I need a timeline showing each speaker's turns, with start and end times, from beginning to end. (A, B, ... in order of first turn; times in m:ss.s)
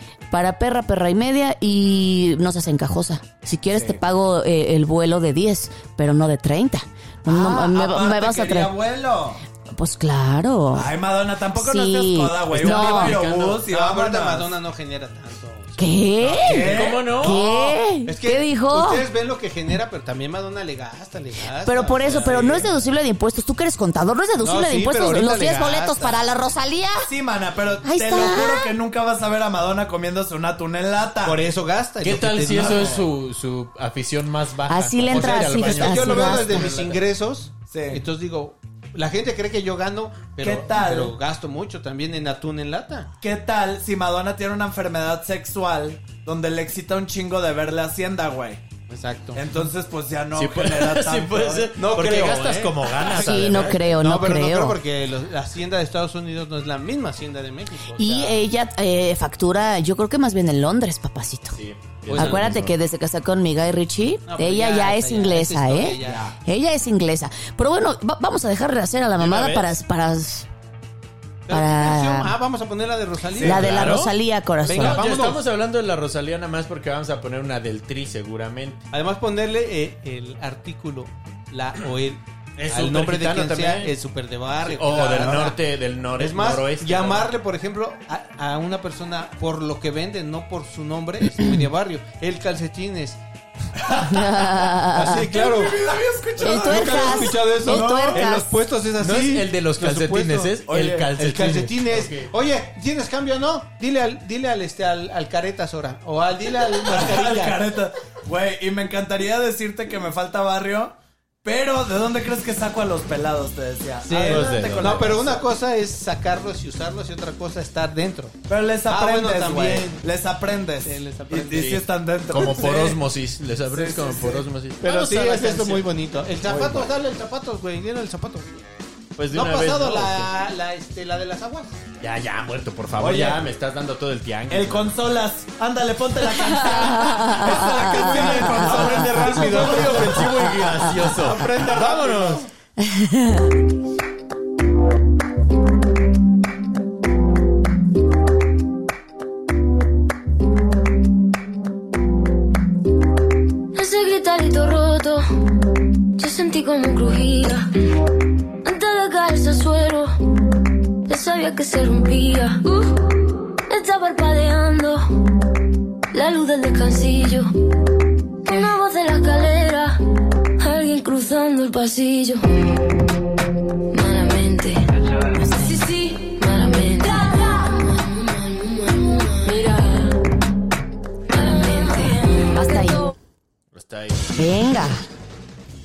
0:00.3-0:08.7 A
0:03.7-0:04.0 B
0:07.2-0:09.4 B
0:09.7-0:10.9 A
0:10.7-0:14.5 B
0:11.6-0:13.2 A
0:12.5-0:13.6 C
0:13.6-0:22.7 D
0:15.8-0:19.0 A
0:16.3-0:17.3 B
0:16.5-0:17.4 C
0:21.6-0:27.1 A
0:22.1-0:22.6 B
0:24.4-0:26.2 D
0:27.0-0:31.4 B
0:27.8-0:28.7 A
0:31.2-0:33.0 D
0:32.0-0:37.0 C
0:32.5-0:33.1 B
0:34.7-0:36.7 A
0:35.1-0:43.1 D
0:37.7-0:38.0 B
0:40.4-0:41.1 B
0:43.2-0:48.6 B
0:48.9-0:49.4 D
0:49.3-0:51.8 B
0:50.3-0:53.9 C
0:51.8-0:58.4 D
0:53.1-0:54.8 A
0:58.0-1:10.5 A
1:01.5-1:02.8 C
1:02.1-1:02.4 D
1:04.3-1:06.3 D
1:06.0-1:06.3 B
1:09.2-1:09.7 C
1:11.5-1:13.6 D
1:11.5-1:12.3 A
1:13.3-1:13.7 B
1:13.4-1:15.0 A
1:13.4-1:14.2 C
1:14.6-1:15.4 D
1:14.7-1:18.8 C
1:18.9-1:25.6 D
1:22.6-1:23.9 C
1:24.6-1:27.3 C
1:26.2-1:33.2 D
1:33.8-1:38.4 B
1:34.0-1:35.2 A
1:34.9-1:40.6 D
1:36.4-1:38.5 A
1:39.0-1:42.3 C
1:40.7-1:41.1 B
1:41.2-1:47.6 D
1:46.8-1:55.5 B
1:54.1-1:58.4 D
1:54.1-1:55.1 C
1:58.5-2:03.0 B
1:58.9-2:00.0 D
2:00.8-2:01.8 D
2:01.6-2:05.9 C
2:03.6-2:04.5 B
2:04.8-2:08.7 D
2:06.4-2:06.9 B
2:09.2-2:10.3 C
2:09.3-2:11.8 D
2:12.0-2:15.0 C
2:13.0-2:13.4 B
2:14.5-2:22.4 B
2:17.9-2:22.3 C
2:18.4-2:20.2 D
2:21.2-2:22.4 D
2:22.8-2:23.5 A
2:33.7-2:35.2 E
2:36.2-2:37.7 E
2:38.6-2:40.1 E
2:41.1-2:45.0 E
2:46.1-2:47.5 E
2:48.4-2:50.0 E
2:50.6-2:52.8 E
2:53.9-2:54.9 E
2:55.4-2:55.9 A
2:55.4-3:00.2 E
3:01.3-3:02.9 E
3:02.5-3:03.1 A
3:03.7-3:04.3 C
3:04.3-3:05.0 A